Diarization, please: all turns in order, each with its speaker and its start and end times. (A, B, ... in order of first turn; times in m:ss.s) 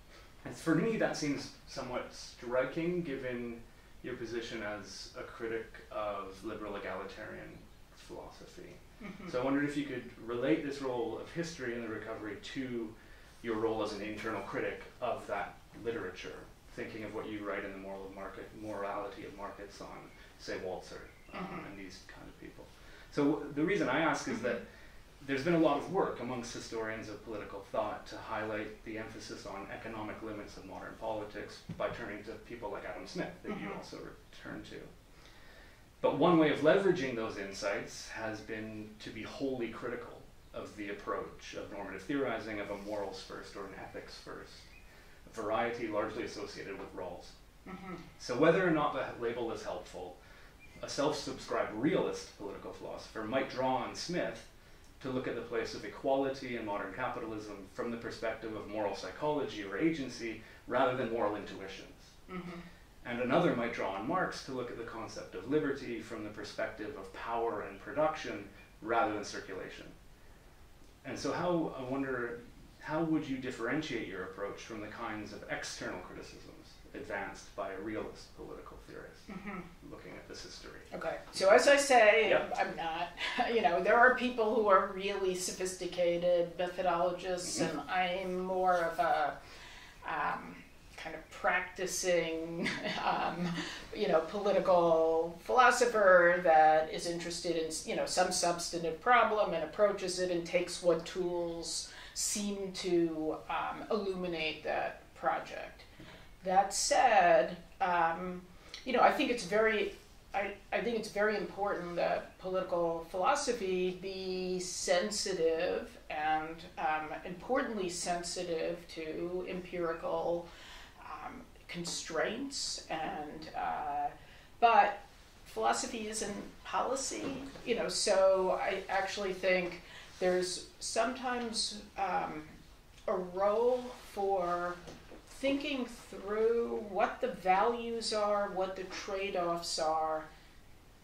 0:00.4-0:24.6 A
0:21.4-0:21.6 B
0:25.2-0:34.9 A
0:33.5-0:33.8 B
0:36.0-0:44.6 A
0:45.2-0:47.3 A
0:47.7-0:48.0 B
0:48.2-0:50.2 A
0:50.8-0:54.5 A
0:55.0-1:02.1 A
1:02.3-1:02.6 B
1:03.0-1:09.9 A
1:11.0-1:19.3 A
1:19.3-1:19.6 B
1:19.8-1:20.9 A
1:20.9-1:29.4 B
1:30.0-1:45.9 B
1:46.4-2:00.5 B
2:01.0-2:12.5 B
2:13.1-2:20.3 B